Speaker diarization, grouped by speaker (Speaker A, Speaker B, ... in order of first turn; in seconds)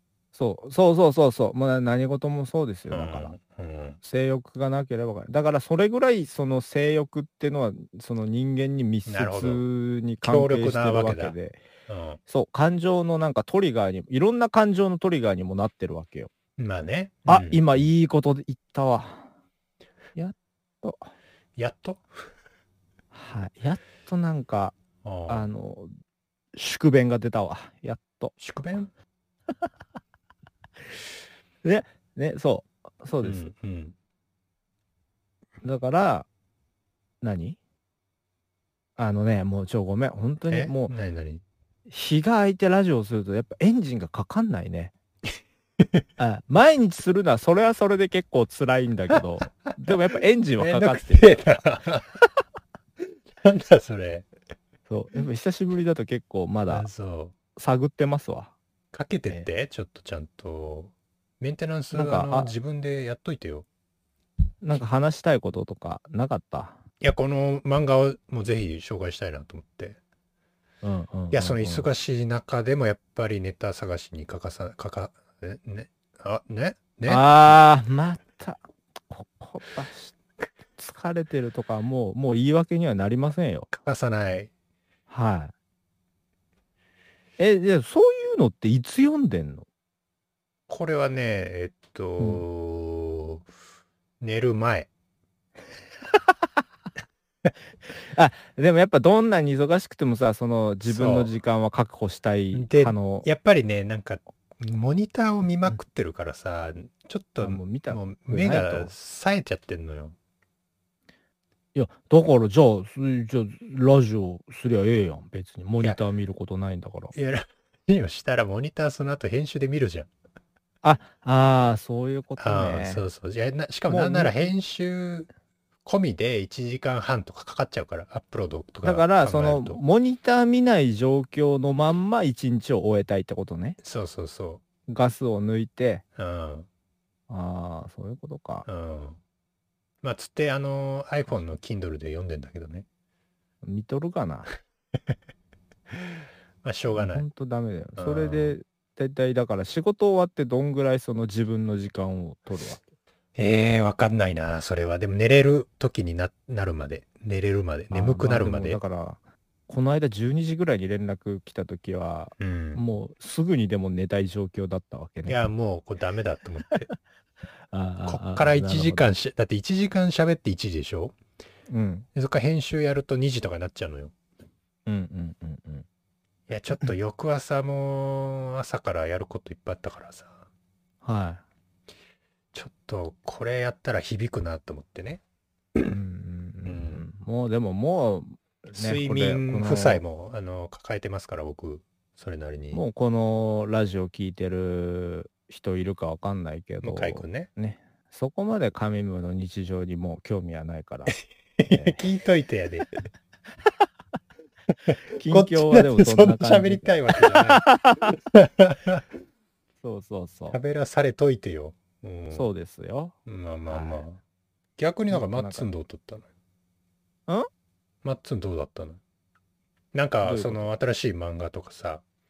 Speaker A: 0.3-3.3, 4.0-11.6, 12.3-16.3, 17.3-19.3, 20.1-21.1, 23.1-24.8, 25.3-25.9, 26.5-28.3, 31.6-33.5, 35.6-36.3, 37.2-37.6, 39.0-40.9, 41.9-44.9, 46.2-51.5, 54.9-56.9, 57.6-58.5, 61.9-62.5, 64.6-66.8, 70.8-71.9, 77.1-80.2, 80.8-83.7, 85.1-85.5, 87.4-89.7, 92.2-92.4, 98.0-103.3, 107.4-108.9, 111.8-117.1, 120.8-123.0, 123.9-124.5, 128.8-133.8, 134.9-136.0, 137.3-138.7, 143.6-144.5, 146.9-152.8, 157.9-165.4, 167.7-169.1, 171.7-172.1, 174.9-175.9, 181.0-181.4, 185.9-190.0, 192.7-201.2, 201.7-202.0, 205.2-208.1, 209.8-210.6, 212.3-213.2, 213.7-214.0, 215.1-215.7, 220.2-220.7
Speaker B: 2.9-4.0, 9.1-9.6, 10.2-11.3, 11.9-12.2, 16.6-17.9, 21.6-22.2, 25.0-25.5, 28.4-28.9, 33.2-34.0, 40.5-41.4, 50.6-52.1, 53.4-54.3, 56.7-57.3, 58.9-63.7, 67.0-70.0, 71.3-77.5, 83.7-84.5, 90.7-93.5, 94.2-94.9, 100.9-101.3, 102.5-110.2, 117.1-120.1, 122.4-125.3, 125.8-129.8, 133.8-134.6, 136.2-136.7, 138.7-139.2, 140.0-142.9, 146.6-147.2, 148.0-148.6, 153.4-158.8, 162.4-162.8, 165.3-166.9, 168.1-171.2, 172.2-174.1, 176.5-180.4, 182.5-185.2, 186.7-187.0, 188.7-192.8, 196.8-197.5, 201.1-202.9, 204.9-209.1, 210.5-212.5, 213.3-214.2, 214.8-216.3, 218.0-219.0, 219.9-222.0